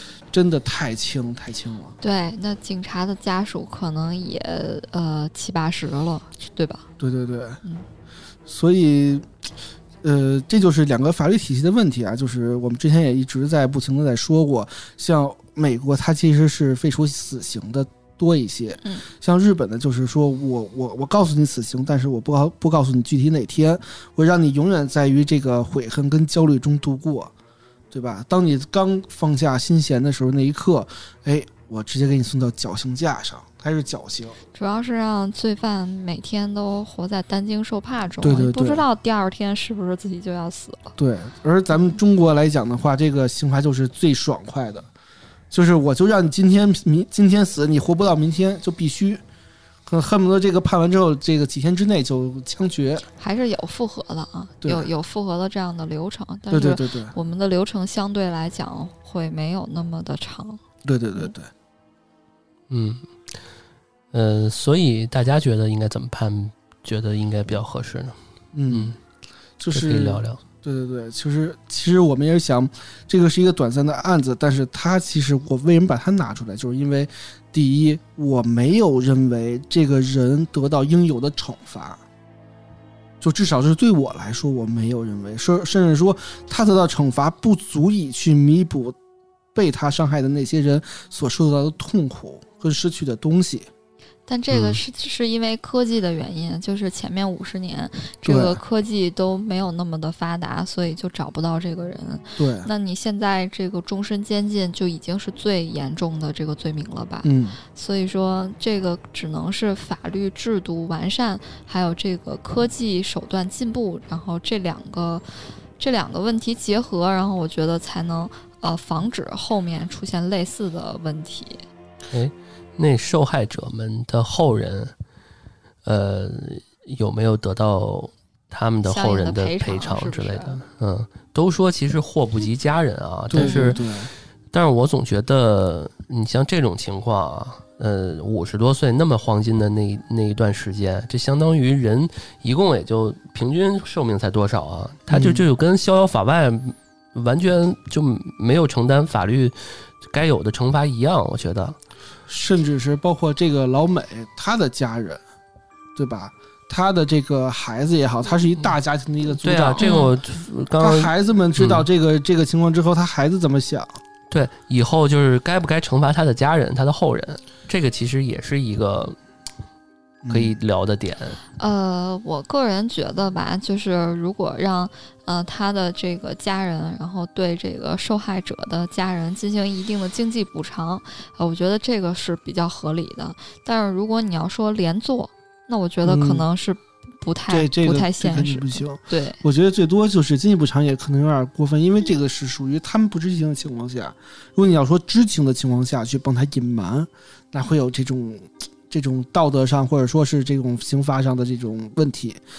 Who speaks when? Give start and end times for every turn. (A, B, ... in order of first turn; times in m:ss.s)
0:00.3-0:01.9 A
0:02.0-0:06.8 B
0:07.0-0:07.6 A
0:08.5-0:09.2 A
0:10.0-0:27.3 A
0:27.9-0:34.4 A
0:34.5-0:40.9 B
0:38.2-0:38.8 A
0:41.0-0:44.8 A
0:45.5-0:49.2 A
0:49.8-0:53.0 A
0:53.2-1:00.6 B
0:54.6-0:54.9 A
0:56.5-0:57.1 A
1:00.8-1:01.5 A
1:02.7-1:03.1 C
1:04.1-1:08.2 C
1:08.5-1:09.0 A
1:08.7-1:08.9 C
1:09.6-1:22.0 A
1:09.7-1:10.4 C
1:23.2-1:28.9 A
1:29.5-1:33.7 A
1:34.3-1:55.2 B
1:34.5-1:34.8 C
1:38.2-1:38.6 A
1:42.4-1:42.7 A
1:47.2-1:47.6 A
1:55.8-2:01.6 B
2:02.1-2:04.9 C
2:05.8-2:13.8 C
2:08.8-2:10.6 B
2:13.3-2:14.1 A
2:13.3-2:13.8 B
2:14.5-2:31.8 C
2:25.1-2:25.4 A
2:32.3-2:35.2 A
2:35.9-2:39.8 A
2:39.4-2:41.8 C
2:39.8-2:40.1 B
2:40.8-2:44.0 A
2:44.3-2:49.2 C
2:50.2-2:50.5 A
2:50.3-2:51.4 C
2:51.6-3:09.4 B
3:06.0-3:06.4 A
3:07.5-3:22.4 A